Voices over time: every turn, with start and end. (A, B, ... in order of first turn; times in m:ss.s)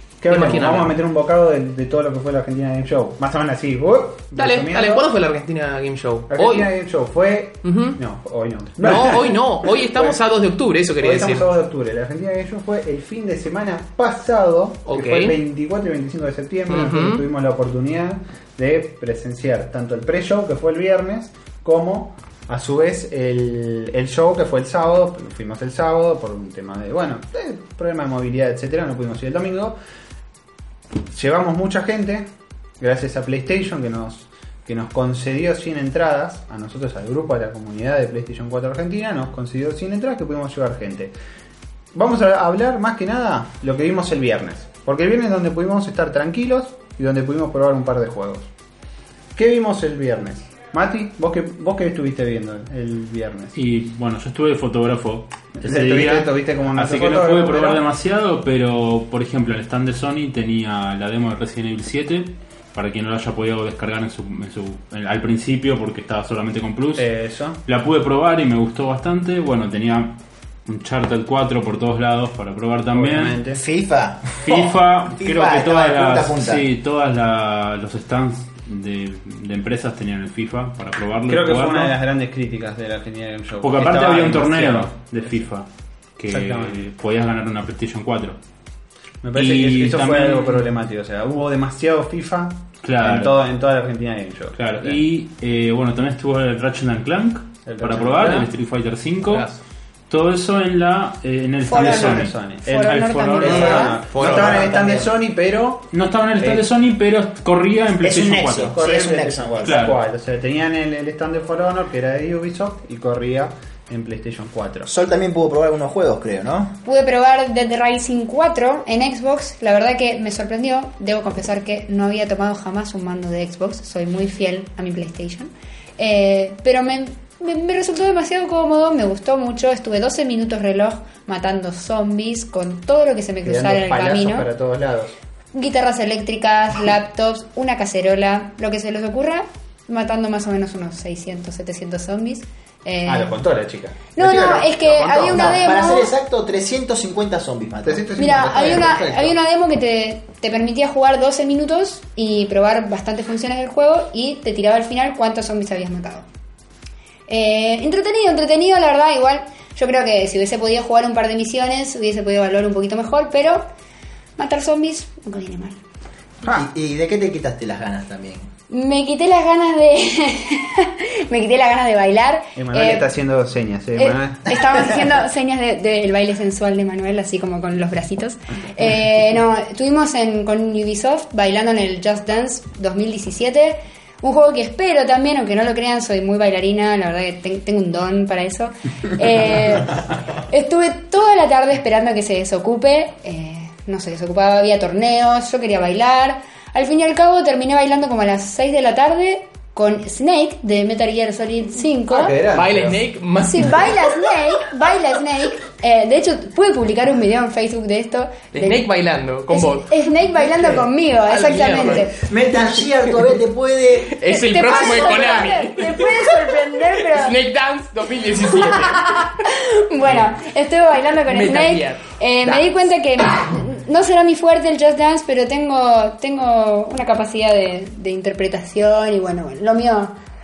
0:00.2-0:05.1 A
0:00.3-0:01.0 B
0:04.4-0:06.7 B
0:06.3-0:09.4 A
0:07.6-0:08.0 B
0:08.8-0:11.5 B
0:11.0-0:29.8 A
0:14.8-0:15.4 B
0:16.7-0:17.2 B
0:31.1-0:32.2 A
0:32.8-0:41.1 A
0:41.9-0:48.5 A
0:49.4-0:53.5 A
0:53.5-1:07.1 C
0:55.6-0:57.8 A
1:07.0-1:07.6 A
1:07.6-1:13.4 C
1:12.9-1:13.6 A
1:13.5-1:16.6 D
1:14.4-1:21.9 C
1:21.3-1:25.0 A
1:23.6-1:25.6 C
1:26.2-1:28.4 C
1:26.3-1:26.8 A
1:29.2-1:35.0 A
1:29.3-1:30.6 C
1:32.8-1:33.4 C
1:34.6-1:39.5 C
1:37.6-1:38.5 A
1:40.1-1:44.1 C
1:41.6-1:44.0 E
1:41.7-1:46.6 A
1:43.4-1:45.1 D
1:44.2-1:44.5 B
1:45.9-1:48.8 C
1:48.0-1:49.9 D
1:48.7-1:54.9 A
1:49.6-1:50.0 C
1:54.8-1:56.8 D
1:56.8-2:14.5 E
2:13.4-2:15.1 A
2:15.5-2:23.3 E
2:23.0-2:25.8 A
2:24.1-2:26.1 E
2:24.2-2:24.7 D
2:25.2-2:29.3 D
2:27.8-2:29.1 A
2:28.2-2:36.3 E
2:37.3-2:43.6 E
2:44.4-2:45.8 E
2:46.4-2:48.5 D
2:48.7-2:53.0 E
2:52.6-2:54.8 A
2:54.0-3:22.4 E
3:22.1-3:23.0 A
3:22.5-3:24.3 B
3:23.4-3:28.8 E
3:28.5-3:32.2 B
3:29.5-3:32.1 E
3:32.1-3:34.1 D
3:32.7-3:33.2 B
3:34.0-3:39.3 B
3:34.2-3:37.4 E
3:38.6-3:50.1 E
3:41.3-3:42.6 B